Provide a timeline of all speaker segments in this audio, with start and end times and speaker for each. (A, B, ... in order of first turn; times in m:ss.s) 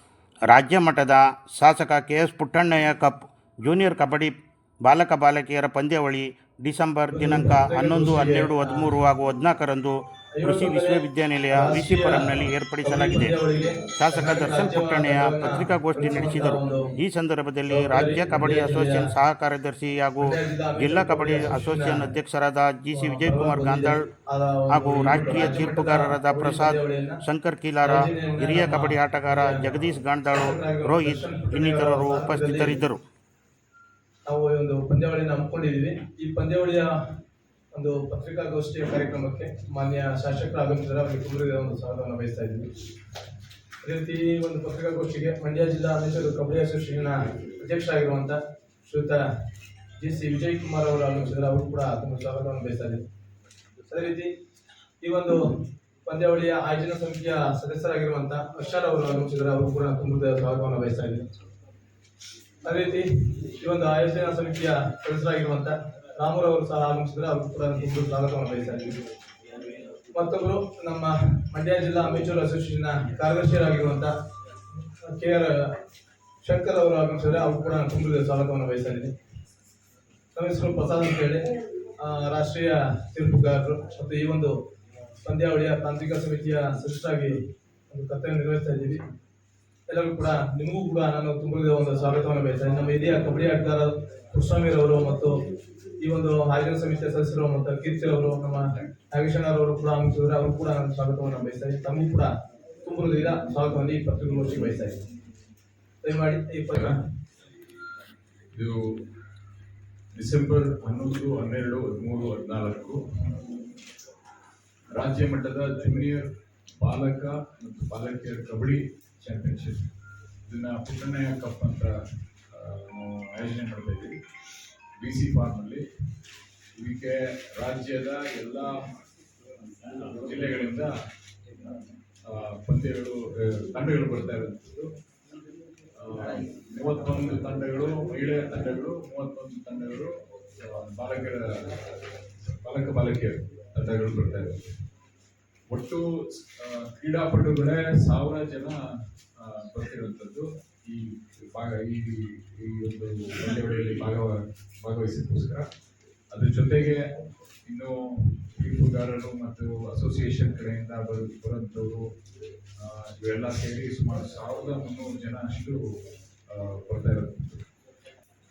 0:00.5-0:13.3 A
0:07.1-0:08.9 B
0:10.4-0:16.9 B
0:14.0-0:24.1 A
0:17.7-0:19.1 B
0:20.2-0:22.1 B
0:22.9-0:27.2 B
0:24.7-0:33.0 A
0:27.8-0:32.8 B
0:34.2-0:36.9 B
0:37.7-0:42.7 B
0:43.8-0:49.2 B
0:50.0-0:53.0 B
0:53.9-0:54.3 B
0:55.0-1:01.3 B
1:02.6-1:09.0 B
1:10.1-1:14.1 B
1:14.9-1:15.8 B
1:16.4-1:19.1 B
1:20.3-1:24.6 B
1:25.2-1:27.4 B
1:27.9-1:29.1 B
1:29.9-1:35.4 B
1:36.0-1:42.3 B
1:42.8-1:45.0 B
1:46.0-1:46.9 B
1:46.7-1:47.0 C
1:48.5-1:48.8 C
1:50.1-1:53.4 C
1:54.9-1:56.3 C
1:56.8-1:59.8 C
2:00.5-2:02.0 C
2:02.5-2:04.1 C
2:05.0-2:05.8 C
2:06.8-2:09.0 C
2:09.8-2:10.9 C
2:12.2-2:14.9 C
2:15.9-2:21.8 C
2:22.4-2:24.6 C
2:25.7-2:28.8 C
2:29.4-2:35.7 C
2:36.3-2:37.0 C
2:37.7-2:42.0 C
2:42.8-2:45.8 C
2:46.5-2:47.6 C